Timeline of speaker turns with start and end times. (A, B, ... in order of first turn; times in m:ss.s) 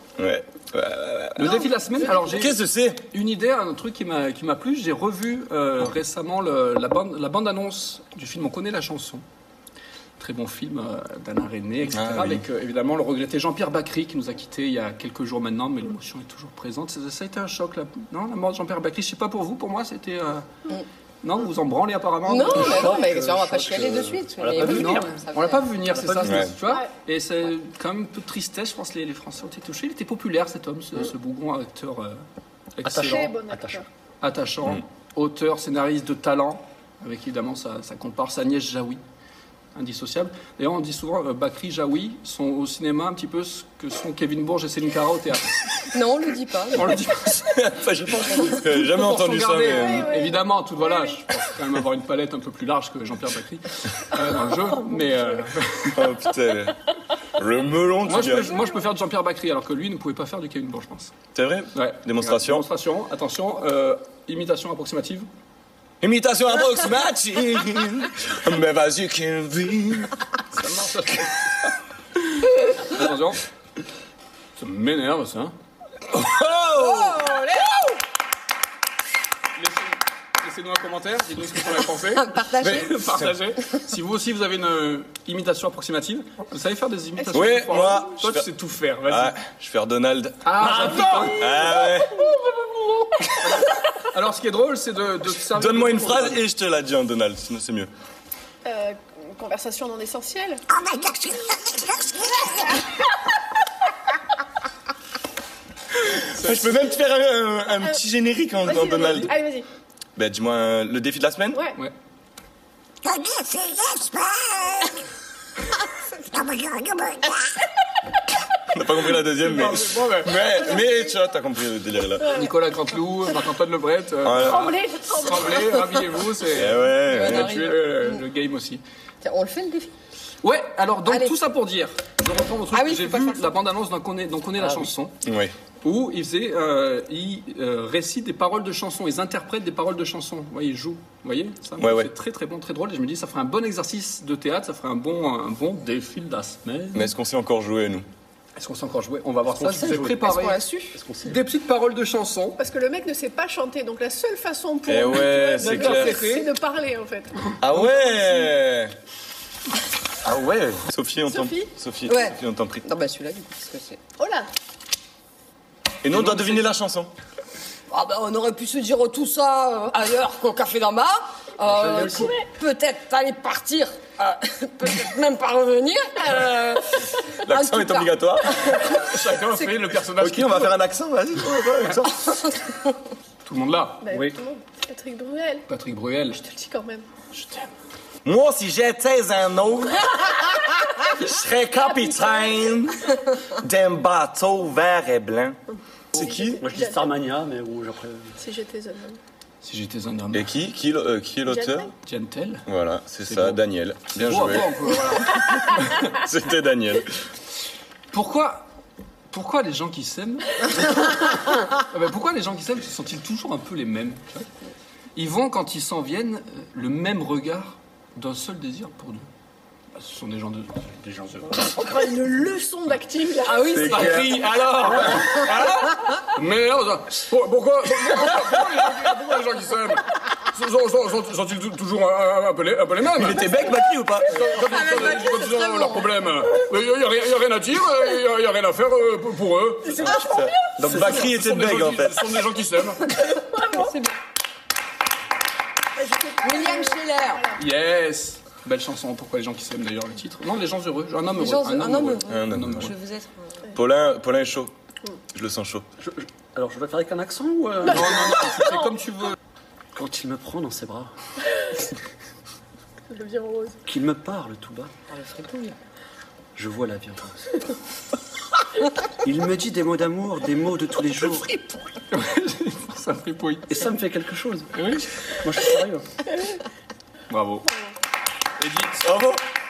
0:00.2-0:01.6 A
0:01.4-0:09.2 B
0:02.3-0:03.0 A
0:10.2-0:20.5 B
0:11.9-0:12.4 A
0:21.2-0:23.0 B
0:22.3-0:25.7 C
0:22.5-0:25.2 D
0:24.6-0:32.2 B
0:25.9-0:26.4 D
0:26.2-0:26.5 A
0:32.8-0:33.3 B
0:32.8-0:33.8 D
0:33.0-0:33.9 E
0:34.2-0:39.0 B
0:39.8-0:45.9 B
0:45.9-0:47.0 C
0:46.7-0:47.6 B
0:47.4-0:50.1 A
0:48.4-0:56.1 B
0:49.6-0:51.2 E
0:55.9-0:56.8 A
0:57.4-0:58.6 A
0:58.0-1:01.1 B
1:01.4-1:02.6 A
1:01.7-1:05.3 B
1:06.0-1:10.2 A
1:10.5-1:11.4 B
1:12.7-1:13.4 B
1:14.6-1:15.6 B
1:16.1-1:17.2 A
1:16.8-1:18.0 C
1:19.6-1:29.4 B
1:22.1-1:23.0 C
1:22.6-1:23.3 A
1:27.3-1:28.5 A
1:29.1-1:32.2 A
1:30.4-1:31.7 B
1:30.6-1:31.4 D
1:31.1-1:32.4 E
1:33.4-1:36.4 B
1:35.5-1:37.9 A
1:38.6-1:40.6 E
1:40.9-1:42.3 A
1:46.0-1:49.3 A
1:46.4-1:46.6 B
1:48.6-1:49.7 E
1:50.2-1:51.6 A
1:51.5-1:51.8 E
1:58.7-2:02.4 A
1:59.4-2:00.4 B
2:02.2-2:08.8 B
2:04.2-2:04.8 A
2:04.4-2:06.0 E
2:06.5-2:07.7 A
2:07.0-2:08.2 C
2:09.2-2:09.9 C
2:10.4-2:15.2 B
2:11.1-2:11.4 C
2:12.7-2:13.5 C
2:14.6-2:14.9 D
2:15.2-2:15.5 A
2:15.8-2:27.1 B
2:21.8-2:22.1 A
2:26.9-2:28.1 A
2:28.6-2:30.6 B
2:29.5-2:30.3 D
2:30.2-2:31.0 C
2:30.9-2:31.4 D
2:31.2-2:32.6 B
2:32.6-2:37.5 E
2:34.9-2:36.2 A
2:35.6-2:36.5 B
2:37.6-2:38.9 A
2:40.2-2:42.8 A
2:41.3-2:41.7 E
2:42.1-2:44.0 C
2:44.2-2:44.5 E
2:46.0-2:47.1 A
2:46.1-2:46.7 B
2:47.9-2:59.7 C
2:51.7-2:52.3 D
2:52.1-2:52.4 E
2:57.4-2:58.8 A
2:58.9-3:00.8 B
3:00.2-3:02.2 A
3:02.3-3:02.8 C
3:03.4-3:04.4 B
3:04.0-3:05.6 E
3:05.7-3:06.4 B
3:06.4-3:07.1 E
3:07.3-3:07.7 B
3:08.2-3:10.5 A
3:11.0-3:15.6 A
3:12.0-3:12.5 E
3:16.1-3:16.6 A
3:16.1-3:17.1 E
3:16.6-3:18.4 D
3:18.4-3:19.2 E
3:19.6-3:20.5 B
3:20.3-3:21.9 A
3:21.5-3:21.9 E
3:22.0-3:22.7 B
3:22.7-3:24.8 A
3:23.2-3:26.1 B
3:26.0-3:27.1 A
3:28.1-3:28.7 B
3:29.3-3:34.5 B
3:35.2-3:39.3 B
3:40.0-3:41.8 B
3:41.7-3:44.1 E
3:43.4-3:44.4 C
3:43.7-3:44.3 A
3:43.8-3:53.5 B
3:53.2-3:54.4 A
3:54.3-4:00.2 B
3:54.5-3:56.2 C
3:59.9-4:00.7 E
4:00.2-4:02.3 A
4:00.8-4:03.2 B
4:03.3-4:03.9 E
4:03.7-4:04.1 C
4:06.0-4:07.6 E
4:06.4-4:07.5 C
4:07.6-4:12.9 B
4:11.4-4:13.6 C
4:12.3-4:12.9 A
4:13.7-4:14.7 A
4:15.3-4:15.8 A
4:16.0-4:18.4 D
4:17.8-4:19.4 B
4:18.0-4:18.8 E
4:19.9-4:21.1 D
4:23.1-4:23.8 E
4:23.9-4:24.9 D
4:25.1-4:25.8 C
4:26.6-4:27.5 D
4:29.2-4:31.6 D
4:32.1-4:33.9 B
4:33.7-4:34.7 D
4:34.7-4:35.1 B
4:35.4-4:36.1 D
4:37.3-4:37.7 B
4:38.6-4:39.1 B
4:39.0-4:39.4 A